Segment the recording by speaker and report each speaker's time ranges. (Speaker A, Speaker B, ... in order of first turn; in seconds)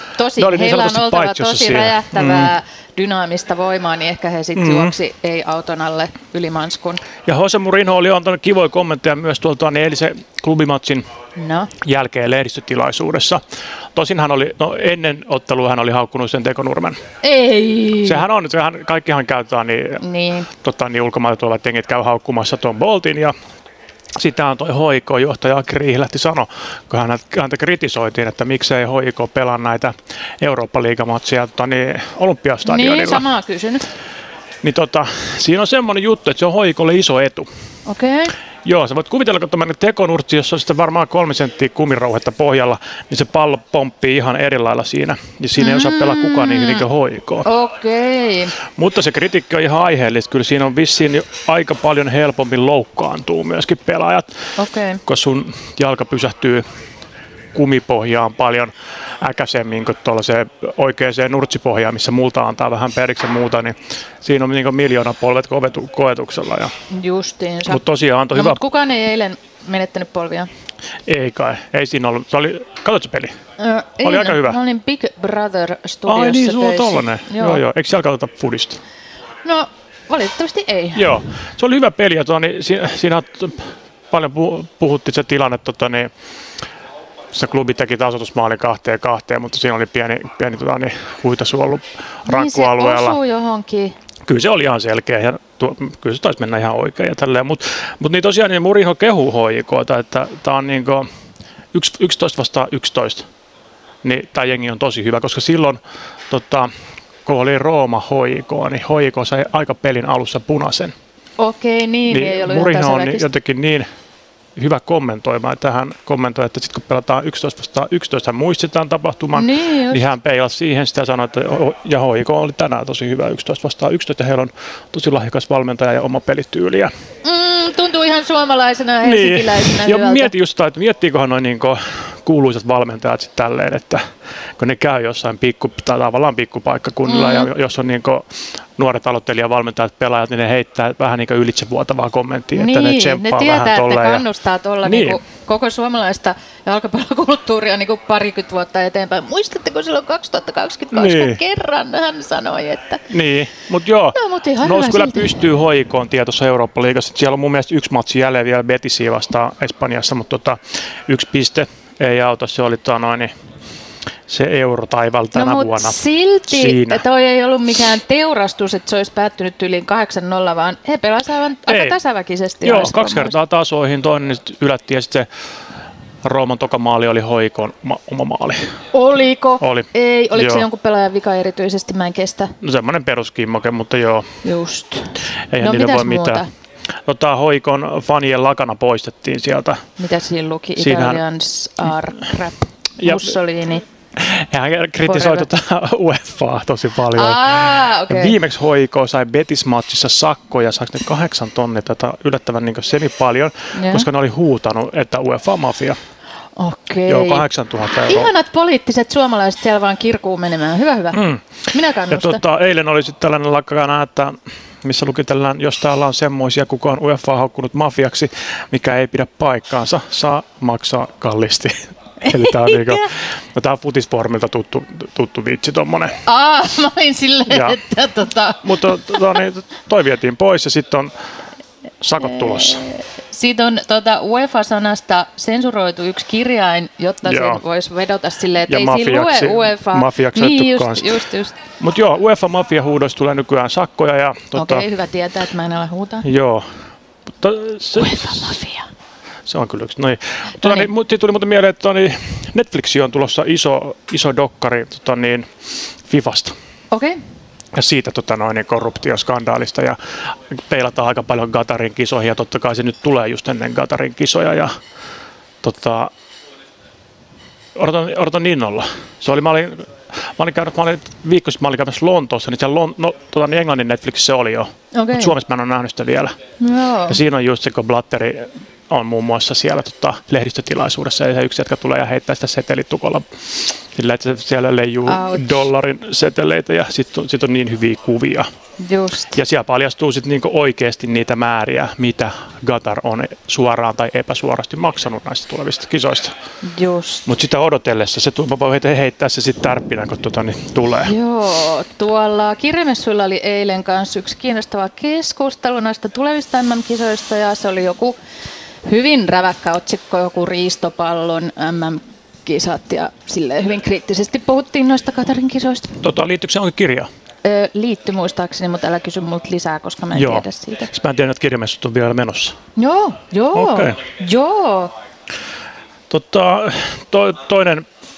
Speaker A: 0.2-7.0, 11.4-11.7, 17.2-18.2, 20.0-20.5, 32.6-33.8, 37.9-38.3, 45.6-46.8, 47.4-48.5, 54.6-55.0, 66.9-70.5, 73.6-77.6, 79.4-81.1, 92.2-93.9, 111.4-113.3, 119.3-120.1, 127.2-130.3, 137.1-137.5, 142.5-153.0, 154.1-155.4, 165.3-173.3, 178.9-182.5, 184.4-186.5, 190.0-193.8, 195.1-195.5, 197.1-198.3, 203.7-204.1, 206.6-207.4, 208.1-212.4, 222.2-223.1, 226.3-229.2, 232.2-241.6, 244.5-246.2, 248.0-248.9, 256.9-257.2, 274.9-275.3, 276.6-277.2, 285.1-285.6, 288.8-289.4, 296.6-297.2, 301.0-308.1, 308.8-316.0, 317.4-320.9, 322.8-324.9
Speaker B: 0.4-2.5, 4.5-4.9, 7.2-11.0, 11.8-13.4, 13.9-17.0, 18.0-20.0, 20.5-23.3, 24.1-33.2, 34.6-37.5, 38.6-47.5, 48.8-54.3, 55.0-56.6, 57.5-66.7, 67.7-68.6, 71.1-73.3, 74.0-74.6, 76.1-78.8, 80.9-86.1, 87.3-93.2, 94.2-101.1, 101.7-103.3, 104.0-106.7, 107.2-110.9, 112.1-113.8, 114.5-126.9, 129.0-134.0, 134.6-138.2, 138.8-144.2, 144.8-145.2, 150.9-151.4, 153.1-163.3, 164.3-165.9, 166.5-167.0, 171.7-171.9, 172.6-175.3, 176.2-178.6, 179.6-180.6, 182.6-184.2, 185.5-186.4, 187.1-189.8, 190.8-191.2, 193.0-193.4, 194.2-206.0, 207.1-208.3, 211.1-211.4, 212.1-226.2, 227.5-227.8, 228.6-231.1, 232.0-232.8, 237.2-237.6, 238.7-241.2, 241.8-244.8, 246.2-246.7, 247.4-248.5, 249.5-255.4, 256.1-256.5, 257.7-260.0, 260.5-264.7, 265.6-266.1, 267.8-276.3, 277.1-288.5, 289.3-296.3, 297.2-301.1, 316.0-317.1, 320.1-322.6, 323.5-324.0, 326.1-327.8